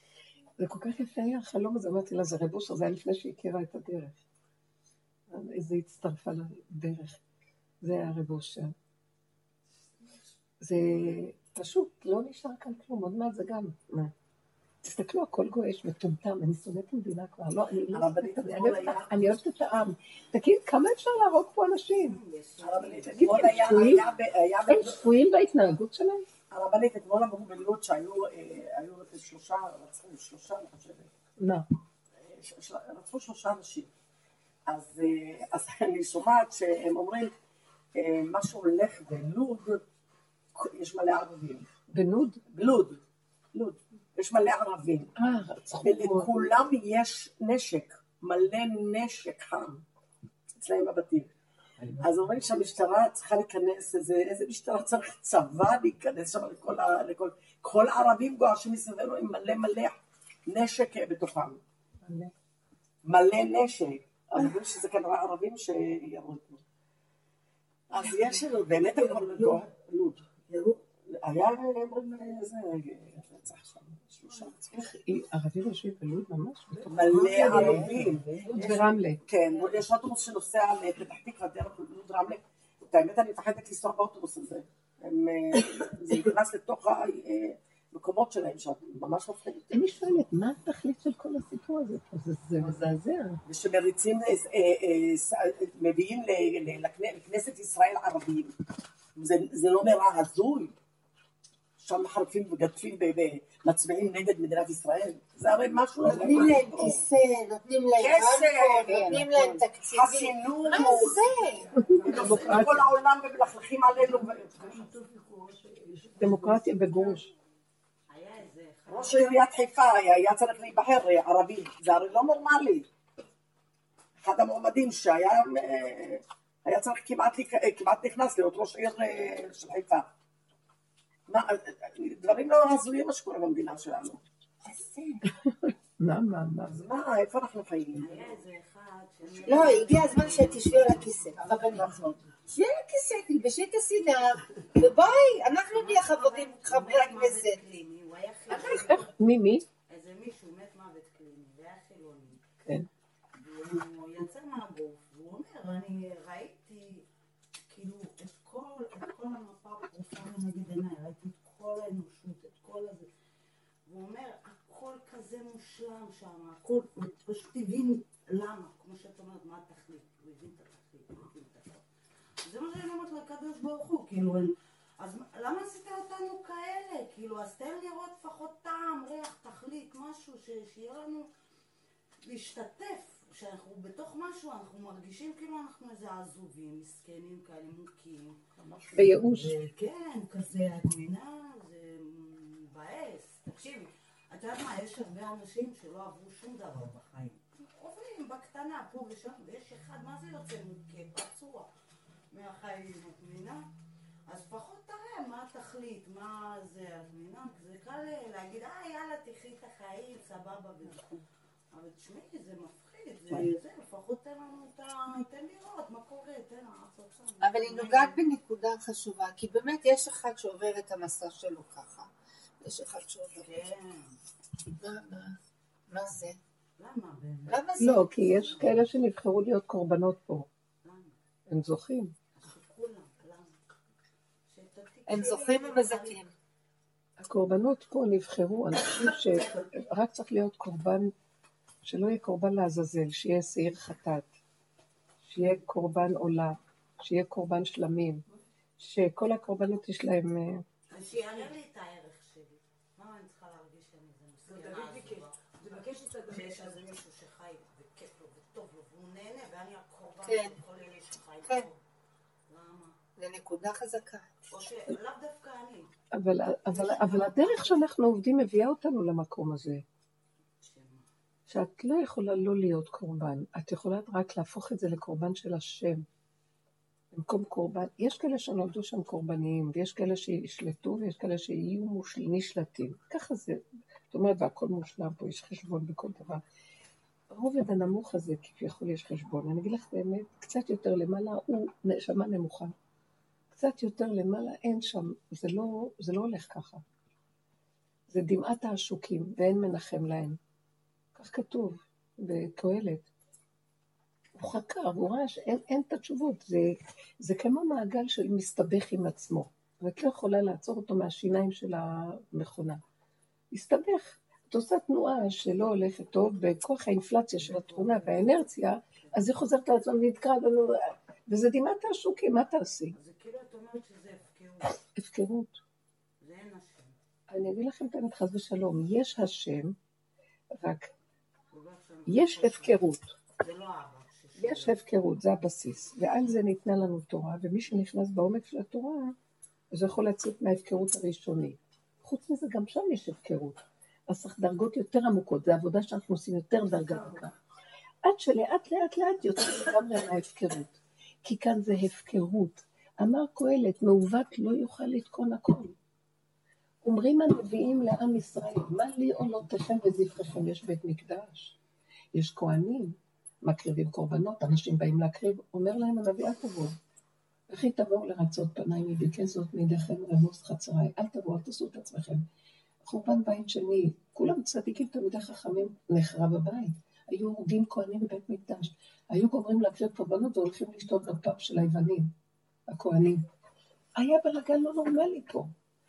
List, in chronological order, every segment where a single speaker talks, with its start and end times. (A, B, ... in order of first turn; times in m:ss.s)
0:00.6-0:04.2 A
0:05.3-0:07.2 A
0:07.8-0:08.7 A
0:10.6-0:14.1 A
0:14.8-0:22.2 A
0:17.9-0:19.3 B
0:21.9-0:23.9 C
0:22.6-0:25.0 B
0:23.2-0:24.0 A
0:24.7-0:26.2 A
0:26.5-0:31.1 B
0:31.4-0:31.6 A
0:32.1-0:33.9 B
0:34.7-0:37.3 B
0:37.9-0:39.8 B
0:40.5-0:41.7 B
0:41.9-0:42.4 A
0:42.5-0:43.0 B
0:43.5-0:45.1 B
0:45.2-0:46.3 A
0:45.8-0:49.8 B
0:50.5-0:51.3 B
0:51.9-1:00.0 B
1:00.5-1:01.6 B
1:02.0-1:02.3 A
1:03.0-1:06.6 B
1:07.9-1:10.2 B
1:08.0-1:09.6 D
1:10.4-1:10.8 D
1:11.0-1:14.8 B
1:14.7-1:19.2 A
1:16.7-1:18.8 D
1:16.9-1:30.2 B
1:17.5-1:18.0 E
1:29.7-1:33.4 A
1:33.4-1:38.5 B
1:39.1-1:40.8 B
1:41.8-1:47.0 B
1:46.0-1:52.2 E
1:46.1-1:46.7 D
1:48.0-1:54.9 B
1:50.7-1:52.7 D
1:51.9-1:52.8 A
1:52.0-1:52.8 C
1:54.1-1:57.2 D
1:56.2-1:57.3 A
1:58.1-1:59.3 C
1:58.9-2:02.9 B
2:04.2-2:10.1 B
2:11.3-2:14.2 B
2:14.6-2:15.2 E
2:15.4-2:16.9 A
2:16.6-2:18.4 B
2:17.9-2:21.8 C
2:19.4-2:27.6 E
2:25.7-2:29.1 C
2:28.5-2:29.6 A
2:29.9-2:32.4 C
2:33.3-2:37.0 C
2:37.7-2:43.1 C
2:43.8-2:51.8 C
2:52.4-3:01.3 C
3:02.2-3:21.7 C
3:08.6-3:08.9 B
3:08.9-3:09.6 A
3:22.3-3:23.6 C
3:24.3-3:38.2 C
3:37.4-3:43.7 E
3:43.4-3:44.2 C
3:44.7-3:45.4 E
3:45.9-3:46.4 E
3:46.8-3:48.8 C
3:47.5-3:48.4 E
3:47.8-3:50.5 A
3:50.8-3:51.1 C
3:51.5-3:52.1 A
3:52.3-3:53.5 C
3:54.5-3:56.2 C
3:55.1-3:56.3 E
3:57.2-4:01.1 A
4:01.8-4:04.3 A
4:05.2-4:08.2 A
4:08.8-4:10.6 A
4:10.9-4:11.5 D
4:10.9-4:15.5 C
4:14.5-4:16.9 D
4:16.3-4:21.8 C
4:20.2-4:20.6 E
4:22.5-4:23.0 C
4:23.2-4:24.5 E
4:24.5-4:25.9 C
4:26.1-4:29.8 A
4:26.6-4:27.9 C
4:30.6-4:31.1 C
4:31.5-4:36.0 A
4:37.1-4:46.4 A
4:47.3-4:52.7 A
4:53.5-4:56.8 A
4:58.1-5:00.4 A
5:01.1-5:03.1 A
5:04.4-5:12.8 A
5:13.5-5:23.0 A
5:17.4-5:19.2 C
5:22.9-5:24.8 C
5:24.8-5:25.6 A
5:26.2-5:27.0 C
5:27.3-5:29.8 A
5:30.5-5:30.9 A
5:31.5-5:34.8 C
5:32.0-5:33.2 A
5:34.4-5:39.1 A
5:39.7-5:47.3 A
5:46.8-5:47.1 D
5:48.0-5:55.8 A
5:56.8-6:01.6 A
6:02.1-6:06.8 A
6:07.5-6:12.2 A
6:12.8-6:22.1 A
6:22.7-6:23.2 A
6:24.0-6:25.5 A